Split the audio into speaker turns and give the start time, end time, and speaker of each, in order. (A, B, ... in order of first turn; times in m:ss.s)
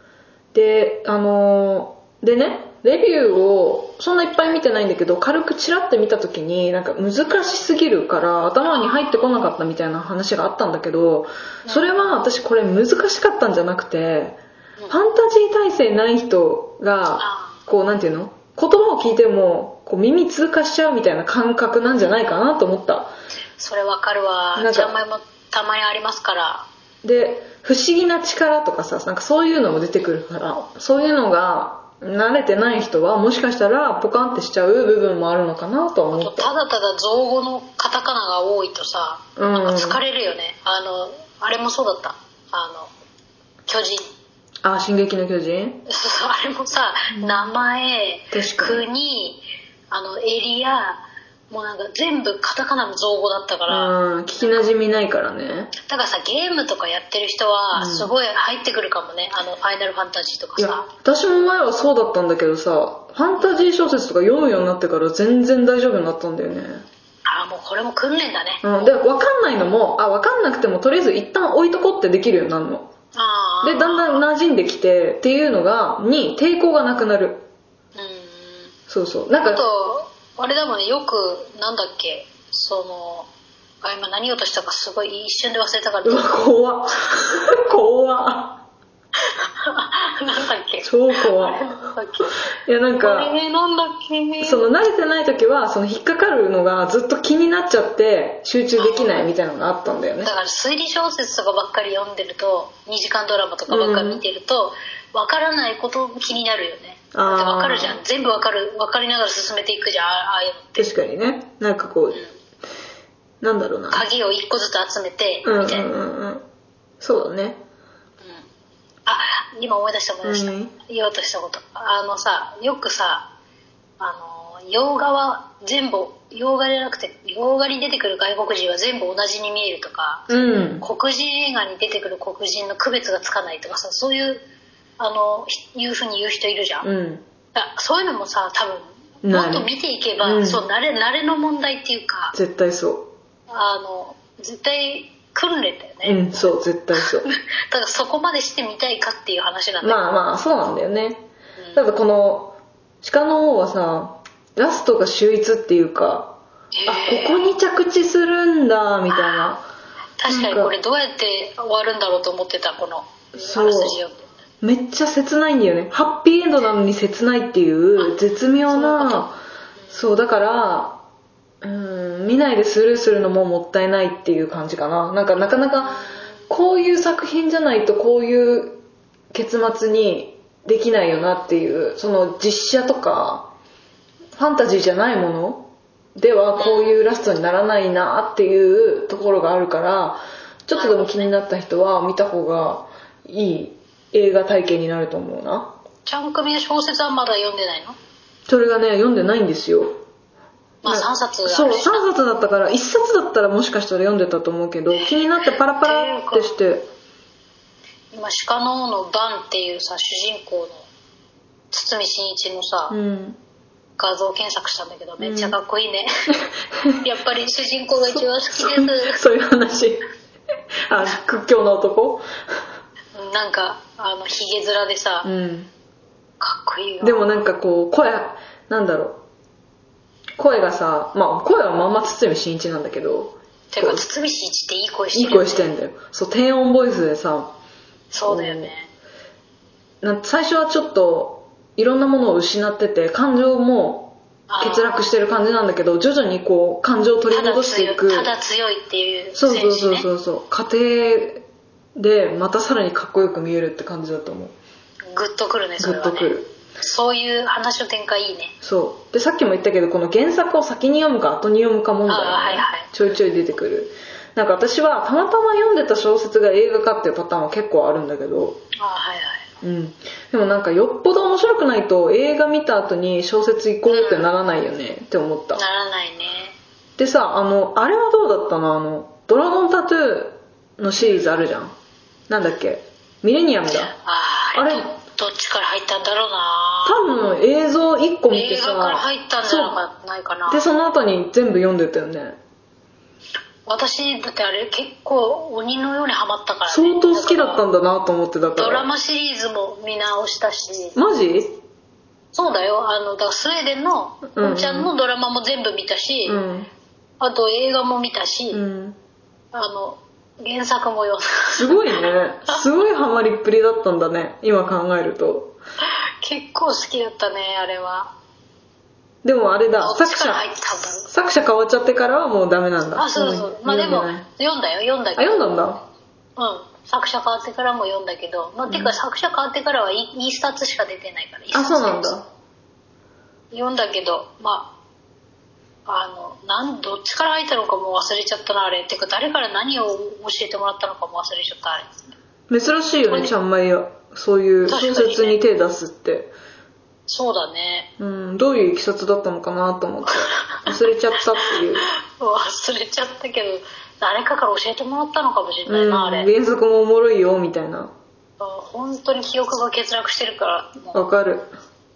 0:00.5-0:23.1 A
0:07.3-0:07.7 B
0:08.7-0:09.4 B
0:11.6-0:12.2 B
0:17.2-0:17.6 B
0:23.6-0:26.7 B
0:24.6-0:25.0 A
0:27.0-0:36.5 A
0:36.1-0:42.9 B
0:39.4-0:40.0 A
0:43.7-0:44.0 B
0:44.6-0:45.8 A
0:45.9-0:54.7 B
0:47.1-0:47.5 A
0:48.3-0:48.9 A
0:53.7-0:55.7 A
0:55.8-1:00.9 B
0:57.8-0:58.1 A
1:00.6-1:06.9 A
1:03.4-1:03.7 B
1:07.2-1:09.0 B
1:08.6-1:12.9 A
1:13.1-1:14.3 B
1:13.6-1:17.5 A
1:18.0-1:18.7 B
1:18.9-1:19.6 A
1:19.4-1:23.3 B
1:23.8-1:26.4 B
1:26.0-1:28.6 A
1:29.3-1:32.4 B
1:30.8-1:31.9 A
1:32.6-1:33.4 A
1:33.0-1:34.7 B
1:34.4-1:40.3 A
1:38.8-1:39.3 B
1:40.2-1:50.9 B
1:43.7-1:44.2 A
1:47.1-1:48.0 A
1:50.8-1:52.2 A
1:53.4-1:54.0 A
1:53.9-1:55.9 B
1:55.4-1:56.4 A
1:57.0-1:57.6 A
1:59.1-2:03.3 B
2:00.2-2:00.8 A
2:04.0-2:14.4 B
2:10.3-2:10.8 A
2:15.0-2:16.9 B
2:16.8-2:17.2 A
2:17.6-2:22.4 B
2:19.2-2:19.7 A
2:20.2-2:20.6 A
2:22.3-2:23.1 A
2:23.5-2:30.0 B
2:26.0-2:27.3 A
2:29.8-2:39.7 A
2:31.6-2:31.9 B
2:36.7-2:37.5 B
2:39.1-2:39.5 B
2:40.2-2:44.3 B
2:40.3-2:40.7 A
2:43.4-2:44.0 A
2:44.6-2:49.4 A
2:48.0-2:49.3 B
2:49.8-2:50.1 B
2:49.9-2:51.0 A
2:51.6-3:03.5 A
2:55.8-2:56.4 B
3:04.4-3:15.7 A
3:06.6-3:07.1 B
3:10.7-3:11.3 B
3:16.0-3:18.0 B
3:18.5-3:20.0 A
3:20.8-3:22.0 B
3:20.8-3:26.9 A
3:24.9-3:25.2 B
3:25.8-3:26.6 B
3:28.1-3:30.9 B
3:31.7-3:33.0 B
3:32.9-3:33.4 A
3:34.0-3:36.5 B
3:35.2-3:35.6 A
3:37.0-3:39.2 B
3:38.1-3:40.1 A
3:40.9-3:42.2 A
3:43.2-3:45.3 B
3:45.2-3:45.7 A
3:46.4-3:47.4 B
3:47.0-3:49.2 A
3:50.4-3:54.1 A
3:53.7-3:55.8 B
3:55.1-3:57.5 A
3:58.1-3:58.9 B
3:58.2-3:58.7 A
4:00.0-4:08.3 A
4:04.5-4:05.0 B
4:07.3-4:10.1 B
4:09.4-4:14.6 A
4:15.1-4:18.6 B
4:15.8-4:16.5 A
4:18.6-4:28.6 A
4:22.1-4:22.9 B
4:28.8-4:29.5 B
4:29.6-4:35.6 A
4:33.9-4:34.3 B
4:35.5-4:36.6 B
4:37.0-4:41.8 A
4:42.3-4:43.9 A
4:43.9-4:47.0 B
4:44.6-4:44.9 A
4:46.8-4:49.8 A
4:48.3-4:50.7 B
4:50.5-4:52.4 A
4:53.7-4:57.6 B
4:56.7-4:58.9 A
4:58.5-5:01.0 B
5:01.0-5:01.6 A
5:02.3-5:06.4 B
5:04.4-5:04.9 A
5:06.3-5:06.7 A
5:07.2-5:08.6 B
5:08.5-5:09.0 A
5:09.5-5:12.6 B
5:11.6-5:15.6 A
5:16.2-5:18.1 B
5:19.2-5:20.5 A
5:19.8-5:21.1 B
5:21.1-5:24.3 A
5:23.0-5:25.7 B
5:25.2-5:25.8 A
5:26.4-5:32.2 B
5:28.7-5:29.0 A
5:31.5-5:32.3 A
5:33.5-5:34.7 B
5:35.9-5:41.9 B
5:42.5-5:46.3 A
5:43.1-5:43.3 B
5:44.7-5:45.4 B
5:47.1-5:47.9 B
5:48.0-5:51.9 A
5:50.1-5:50.7 B
5:52.1-5:56.3 B
5:55.7-5:57.9 A
5:58.4-6:01.0 B
6:00.9-6:01.5 A